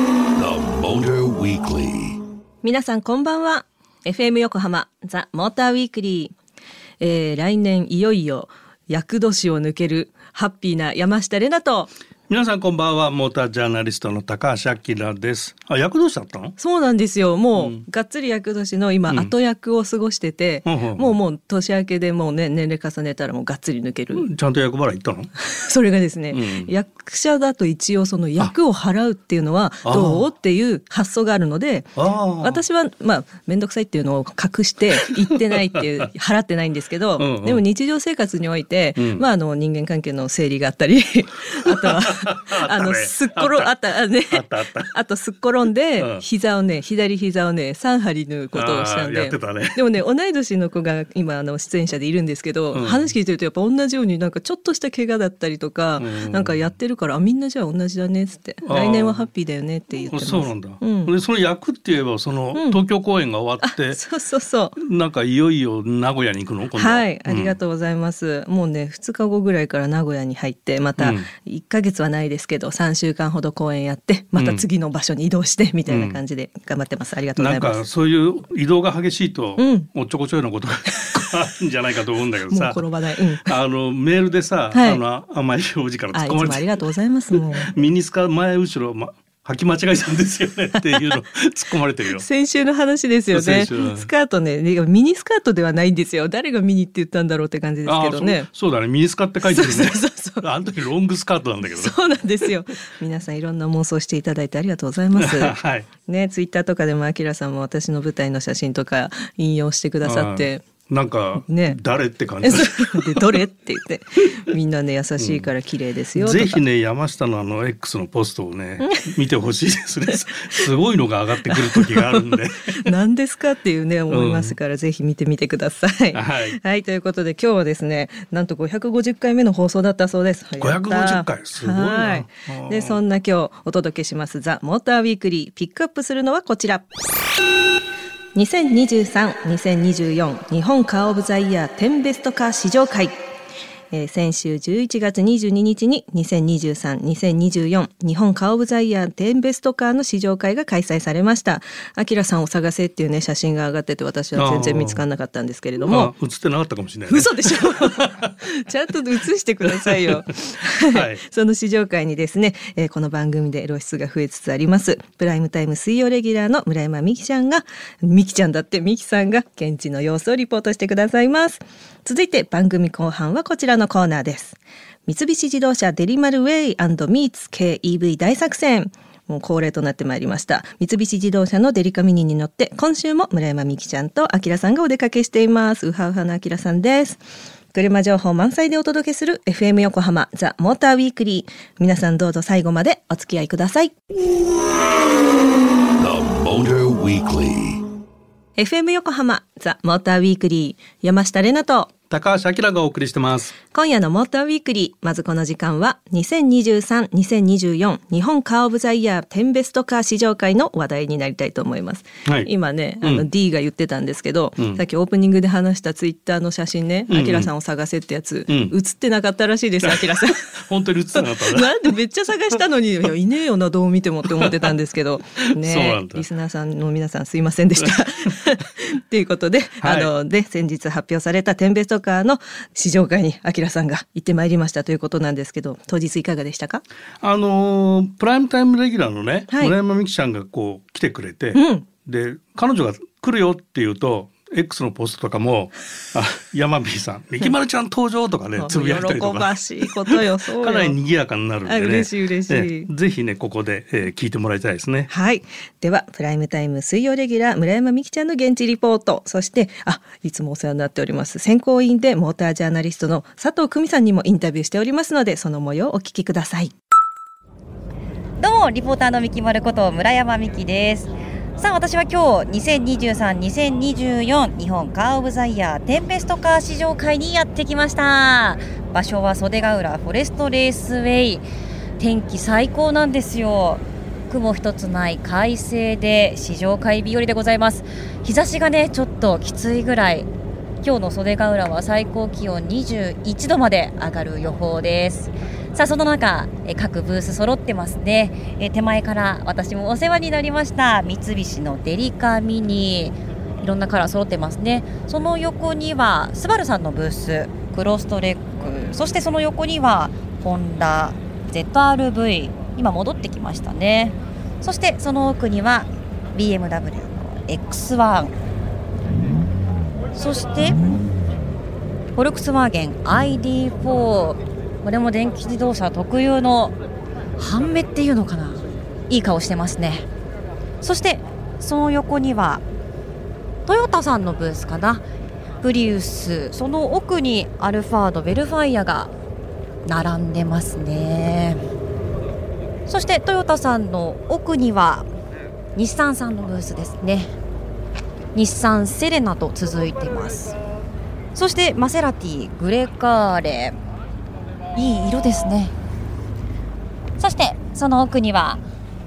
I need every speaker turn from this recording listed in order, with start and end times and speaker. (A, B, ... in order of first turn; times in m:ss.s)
0:00.4-0:02.2 A
0:02.6-0:06.3 B
0:07.0-0:11.9 B
0:12.3-0:16.6 C
0:16.6-0:24.3 B
0:17.6-0:17.8 C
0:20.7-0:21.2 C
0:24.2-0:25.3 C
0:25.4-1:01.1 B
0:26.3-0:26.7 C
0:29.8-0:30.3 C
0:32.0-0:32.6 C
0:37.2-0:37.6 C
0:39.0-0:39.2 C
0:41.7-0:43.7 C
0:44.3-0:44.9 C
0:46.0-0:46.2 C
0:48.5-0:49.8 C
0:52.7-0:53.0 C
0:56.0-0:56.6 C
0:58.6-0:59.3 C
1:00.1-1:04.0 C
1:02.5-1:02.8 B
1:03.6-1:04.8 B
1:04.8-1:07.6 C
1:06.8-1:17.8 B
1:11.0-1:11.3 C
1:14.4-1:14.6 C
1:15.9-1:16.2 C
1:17.4-1:22.8 C
1:19.6-1:19.9 B
1:22.5-1:23.6 B
1:23.5-1:26.7 C
1:24.7-1:25.0 B
1:26.1-1:27.7 B
1:27.3-1:32.2 C
1:30.8-1:31.2 B
1:32.1-1:38.5 B
1:33.3-1:34.1 C
1:37.9-1:42.0 C
1:39.4-1:40.5 B
1:41.6-1:50.6 B
1:45.2-1:45.9 C
1:50.0-1:53.4 C
1:51.5-1:51.8 B
1:52.4-1:56.6 B
1:55.2-1:55.5 C
1:56.2-2:02.9 C
1:58.8-1:59.1 B
2:00.2-2:00.7 B
2:01.5-2:16.9 B
2:04.1-2:04.6 C
2:06.1-2:06.6 C
2:10.6-2:13.0 C
2:18.4-2:23.2 B
2:23.9-2:36.1 B
2:34.4-2:35.0 C
2:35.8-2:38.3 C
2:37.1-3:07.2 B
2:39.7-2:40.2 C
2:40.9-2:41.2 C
3:07.7-3:13.9 B
3:16.0-3:17.8 A
3:18.6-3:21.9 B
3:22.1-3:23.6 C
3:23.7-3:56.8 B
3:33.0-3:33.3 C
3:37.1-3:37.5 C
3:38.5-3:38.8 C
3:39.8-3:41.8 C
3:45.6-3:46.2 C
3:49.8-3:50.1 C
3:57.2-4:15.1 C
3:59.5-3:59.8 B
4:01.6-4:01.9 B
4:08.6-4:11.0 B
4:11.6-4:12.9 B
4:15.1-4:26.7 B
4:28.4-4:41.4 D
4:42.0-4:50.3 D
4:50.8-5:18.3 D
5:20.2-5:20.9 D
5:22.2-5:26.8 D
5:27.4-5:30.1 D
5:30.8-5:32.6 D
5:33.7-5:35.0 D
5:35.6-5:39.1 D
5:39.8-5:41.6 D
5:42.9-5:45.1 D
5:45.8-5:47.3 D
5:48.4-5:50.6 D
5:51.4-5:53.8 D
5:54.8-5:55.7 D
5:57.2-5:58.6 D